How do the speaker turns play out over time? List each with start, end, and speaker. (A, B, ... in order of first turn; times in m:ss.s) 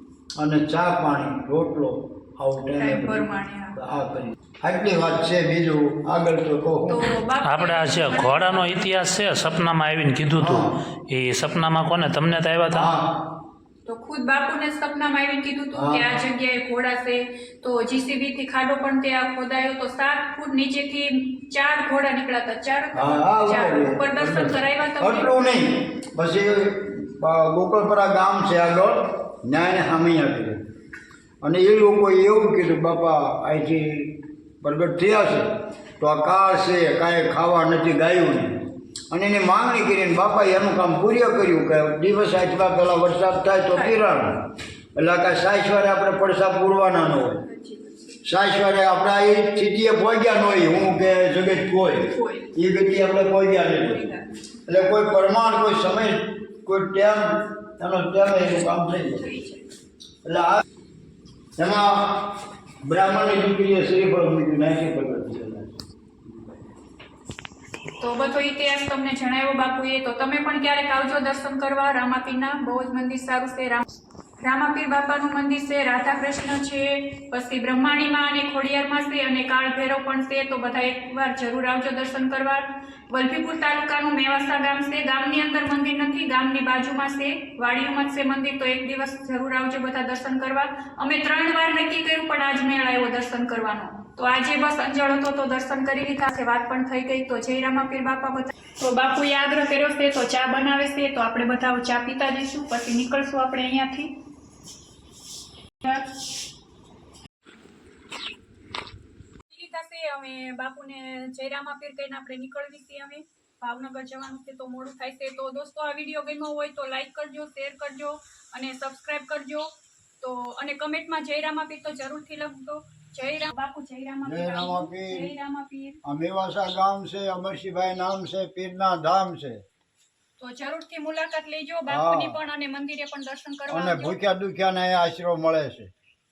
0:00.4-0:07.1 A
0:02.8-0:03.8 B
0:06.9-0:08.9 B
0:07.4-0:12.9 C
0:10.4-0:10.8 A
0:12.7-0:13.3 A
0:13.9-0:25.4 B
0:15.7-0:16.1 A
0:22.9-0:30.6 A
0:31.4-0:47.4 A
0:43.7-0:44.1 B
0:47.2-0:48.0 B
0:48.2-0:54.1 A
0:52.1-0:52.6 B
0:53.8-0:54.4 B
0:54.7-0:59.3 A
0:59.2-0:59.7 B
1:00.2-1:00.6 A
1:01.6-1:05.8 A
1:06.3-1:06.5 A
1:08.0-1:13.8 B
1:14.4-1:44.2 B
1:45.8-1:46.1 B
1:49.5-1:59.7 B
2:00.2-2:06.0 B
2:04.2-2:05.4 A
2:06.0-2:09.6 A
2:10.4-2:14.2 B
2:11.9-2:12.4 A
2:13.7-2:15.9 A